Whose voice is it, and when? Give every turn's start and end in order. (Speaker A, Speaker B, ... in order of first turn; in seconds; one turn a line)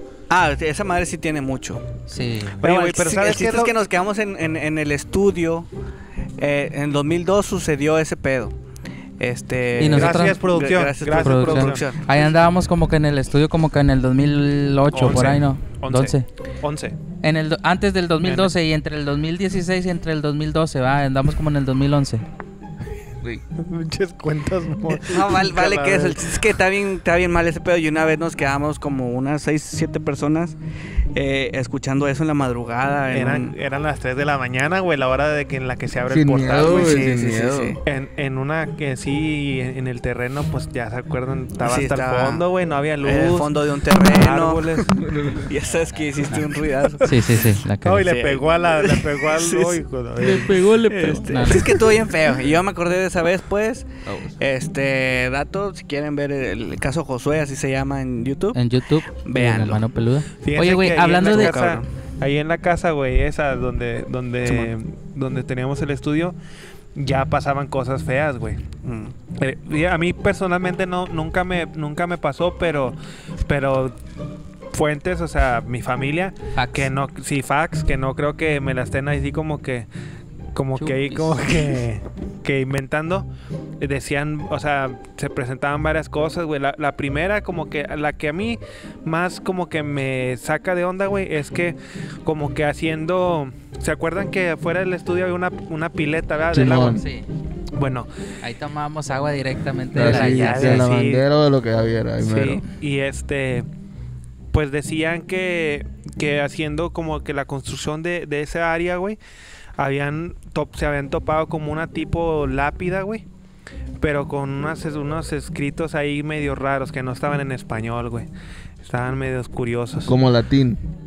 Speaker A: 0.3-1.8
Speaker B: 2.1-2.6
Speaker C: 2.6-3.7
Speaker A: 2.6-5.7
Speaker A: 6.4-8.5
Speaker A: 9.2-12.0
Speaker B: 9.8-10.4
Speaker C: 9.8-12.2
Speaker B: 11.1-16.2
Speaker C: 14.9-16.9
Speaker B: 17.2-22.2
Speaker C: 18.2-18.5
Speaker C: 23.6-26.2
Speaker A: 24.9-30.6
Speaker A: 31.1-33.5
Speaker C: 33.1-37.0
Speaker D: 36.1-37.8
Speaker A: 36.6-37.8
Speaker C: 37.8-45.0
Speaker A: 41.6-42.4
Speaker A: 43.0-44.8
Speaker D: 44.9-45.5
Speaker A: 45.4-47.1
Speaker B: 47.0-48.1
Speaker C: 47.8-50.6
Speaker A: 48.0-49.8
Speaker B: 50.2-51.8
Speaker A: 50.8-58.6
Speaker D: 54.0-54.4
Speaker B: 58.5-61.6
Speaker A: 59.2-59.8
Speaker C: 60.4-66.3
Speaker A: 61.1-61.9
Speaker A: 64.4-64.7
Speaker C: 66.9-68.6
Speaker A: 68.8-69.1
Speaker C: 69.4-73.9
Speaker C: 74.7-79.9
Speaker B: 76.5-76.9
Speaker C: 80.5-83.3
Speaker B: 80.8-81.8
Speaker C: 83.8-97.0
Speaker D: 96.5-97.0
Speaker B: 96.7-97.3
Speaker C: 97.7-98.1
Speaker B: 98.4-100.9
Speaker D: 99.9-102.6
Speaker C: 100.0-101.2
Speaker C: 102.2-103.7
Speaker C: 104.5-109.2
Speaker C: 109.8-113.2
Speaker C: 114.0-118.3
Speaker C: 118.8-120.2
Speaker D: 120.0-120.8